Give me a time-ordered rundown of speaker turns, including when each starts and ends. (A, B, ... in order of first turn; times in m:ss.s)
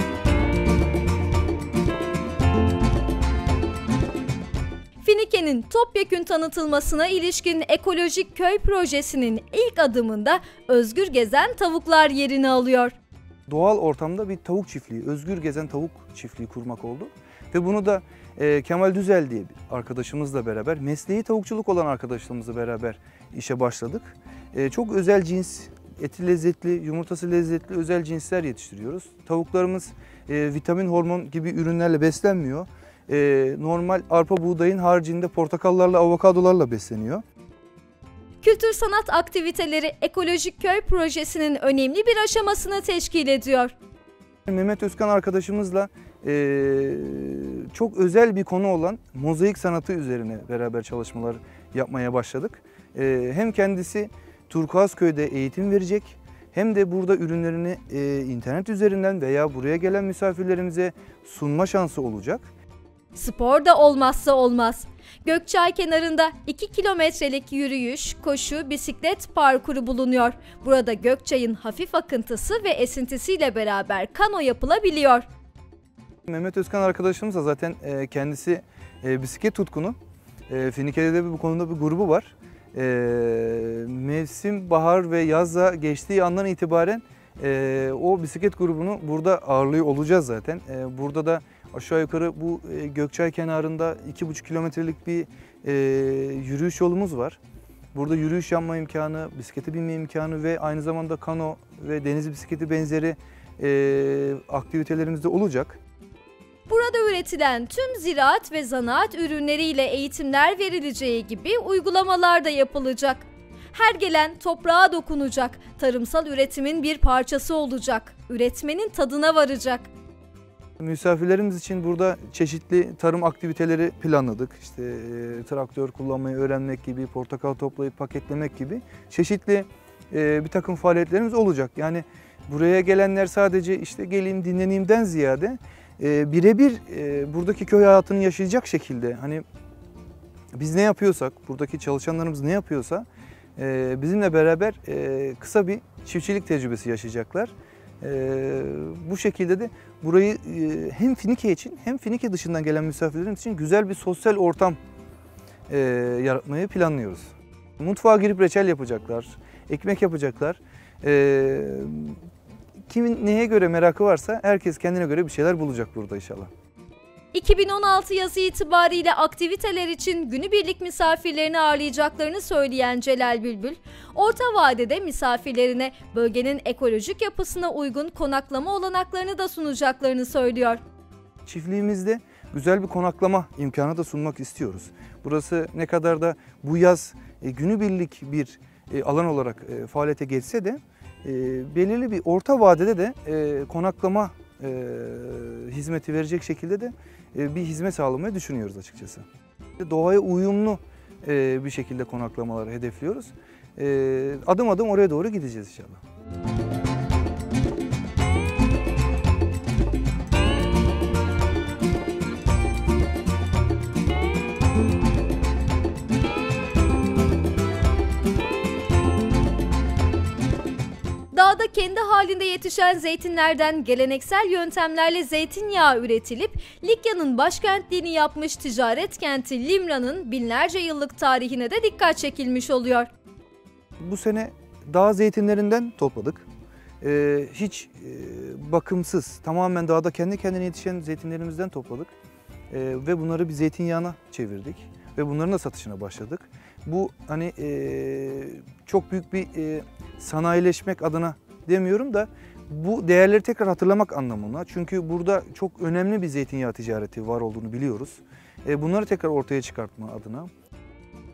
0:05.0-0:12.9 A
0:13.5-0:37.2 B
0:38.4-0:43.7 A
0:44.5-1:02.5 B
1:03.2-1:15.2 A
1:16.3-1:20.0 B
1:20.5-1:37.4 B
1:37.9-1:45.8 B
1:46.7-1:59.9 A
2:00.8-2:19.4 B
2:20.5-2:23.0 B
2:23.6-2:34.8 B
2:35.7-2:42.2 B
2:42.9-2:46.5 B
2:47.3-3:00.8 A
3:01.4-3:19.2 B
3:19.8-3:26.0 B
3:41.3-3:53.1 A
3:54.0-3:56.4 B
3:57.0-4:02.1 B
4:02.7-4:20.5 B